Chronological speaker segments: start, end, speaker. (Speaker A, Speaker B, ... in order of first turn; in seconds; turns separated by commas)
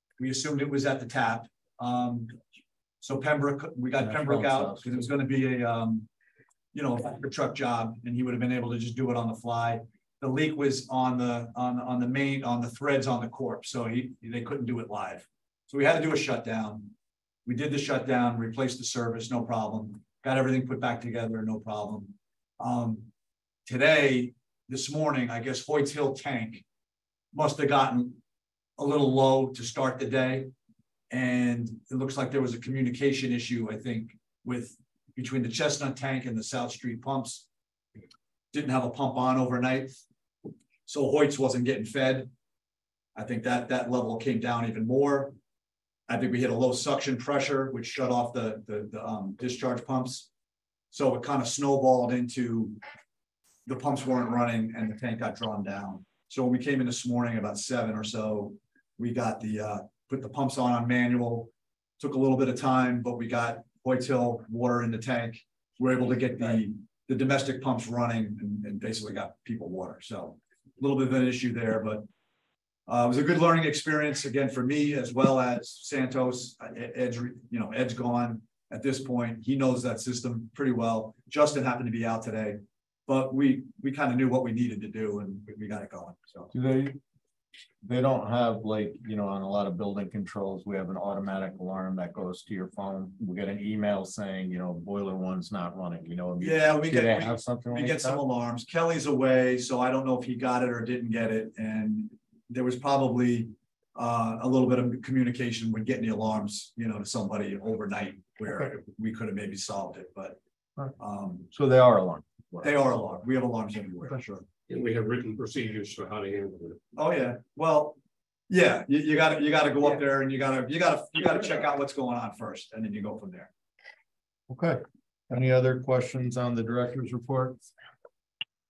Speaker A: 0.2-2.4, Speaker A: 3.0-6.1, Speaker B: 4.0-5.1, Speaker A: 6.7-16.9, Speaker A: 17.4-23.1, Speaker A: 23.6-26.6, Speaker A: 27.3-28.2, Speaker A: 28.8-30.5, Speaker A: 31.1-37.4, Speaker A: 38.5-40.0, Speaker A: 40.9-42.3, Speaker A: 43.1-45.3, Speaker A: 46.1-50.3, Speaker A: 50.9-52.8, Speaker A: 53.6-72.0, Speaker A: 72.9-86.5, Speaker B: 86.5-87.0, Speaker B: 87.8-98.2, Speaker A: 96.4-110.4, Speaker A: 111.0-111.5, Speaker B: 111.5-112.7, Speaker A: 112.6-114.4, Speaker C: 114.7-116.8, Speaker A: 117.0-118.0, Speaker A: 118.5-123.5, Speaker B: 124.5-127.6